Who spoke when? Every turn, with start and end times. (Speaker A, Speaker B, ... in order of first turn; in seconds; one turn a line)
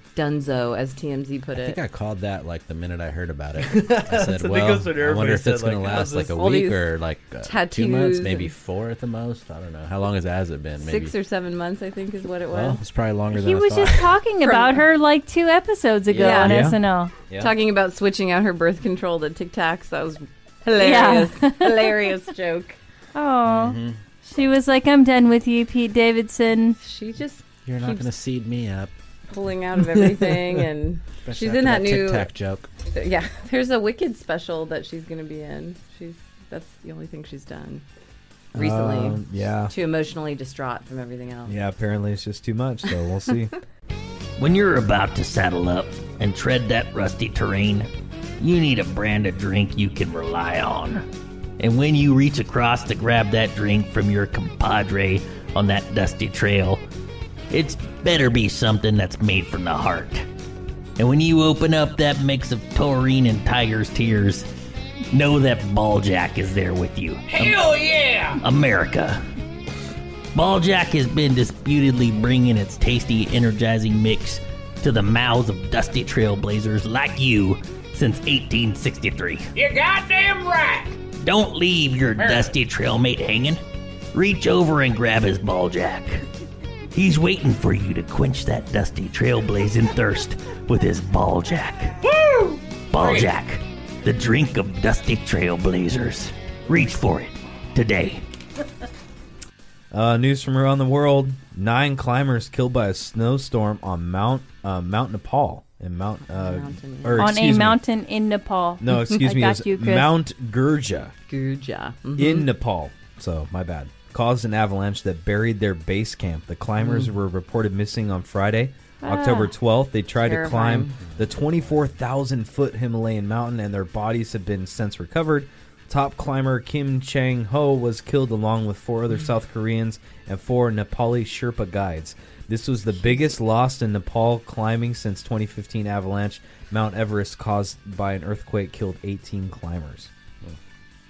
Speaker A: 0.1-1.8
Speaker B: 1.5-11.1
Speaker C: 3.6-6.4
Speaker A: 6.2-6.9
Speaker A: 7.4-8.5
Speaker A: 10.8-12.8
Speaker B: 12.5-14.2
Speaker D: 13.3-17.1
Speaker A: 14.4-14.8
Speaker A: 16.1-16.7
Speaker C: 16.4-17.5
Speaker A: 17.4-22.8
Speaker D: 20.8-22.2
Speaker D: 23.1-26.8
Speaker B: 23.4-24.0
Speaker A: 26.8-28.1
Speaker B: 27.6-28.9
Speaker A: 29.3-32.3
Speaker B: 31.2-32.7
Speaker A: 32.9-37.8
Speaker A: 38.5-41.5
Speaker C: 38.5-39.7
Speaker C: 41.5-43.5
Speaker E: 44.4-51.0
Speaker E: 51.6-56.8
Speaker E: 57.5-60.3
Speaker E: 61.0-64.5
Speaker E: 65.1-69.2
Speaker E: 70.3-79.6
Speaker E: 80.9-83.6
Speaker E: 84.1-86.2
Speaker E: 86.9-92.0
Speaker E: 92.9-98.2
Speaker C: 99.9-107.8
Speaker A: 106.3-107.3
Speaker D: 107.2-110.1
Speaker C: 108.8-111.1
Speaker A: 111.3-112.5
Speaker C: 112.2-140.1
Speaker A: 116.8-117.1
Speaker D: 119.0-119.5
Speaker A: 120.2-121.0
Speaker B: 121.0-121.9